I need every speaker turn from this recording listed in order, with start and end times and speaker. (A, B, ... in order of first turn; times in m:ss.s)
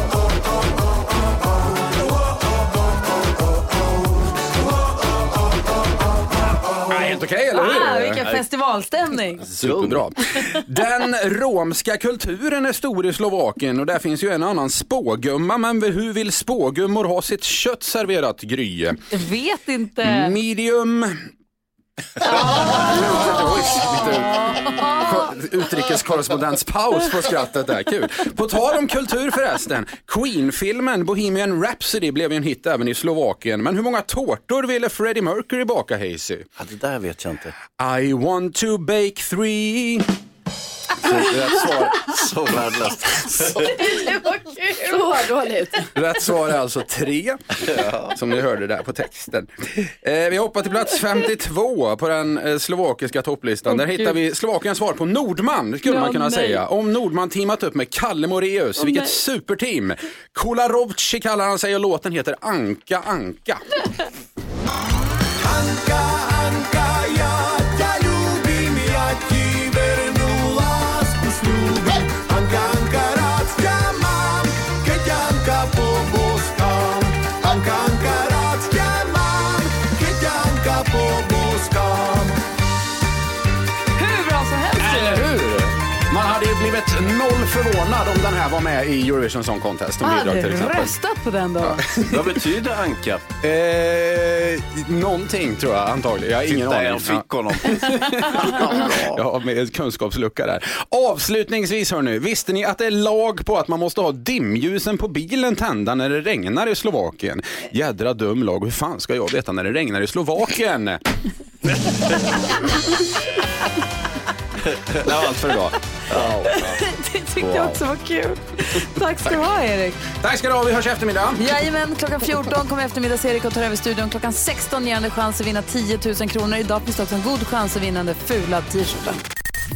0:06.9-0:08.4 A
0:07.5-0:09.4 B
0:09.4-0:19.0 A
0:09.6-0:10.0 C
0:19.1-0:20.3 B
0:20.0-0:21.3 A
0:22.2-0:36.4 A
0:22.3-0:25.3 B
0:36.6-0:37.5 C
0:37.8-0:40.1 A
0:41.0-0:42.1 A
0:41.0-0:43.7 C
0:43.8-0:45.9 D
0:43.9-0:44.3 B
0:45.9-1:03.6 A
0:47.7-0:48.1 C
0:53.7-0:54.1 B
0:55.8-0:56.6 B
0:58.8-0:59.1 B
1:05.4-1:22.4 E
1:24.0-1:25.3 B
1:24.8-1:30.9 A
1:30.0-1:32.1 B
1:31.6-1:32.2 A
1:32.1-1:33.2 C
1:33.4-1:51.0 A
1:36.4-1:39.2 C
1:54.9-1:56.8 A
1:56.4-2:00.0 B
1:57.4-1:57.8 A
2:00.2-2:01.4 A
2:01.4-2:09.2 B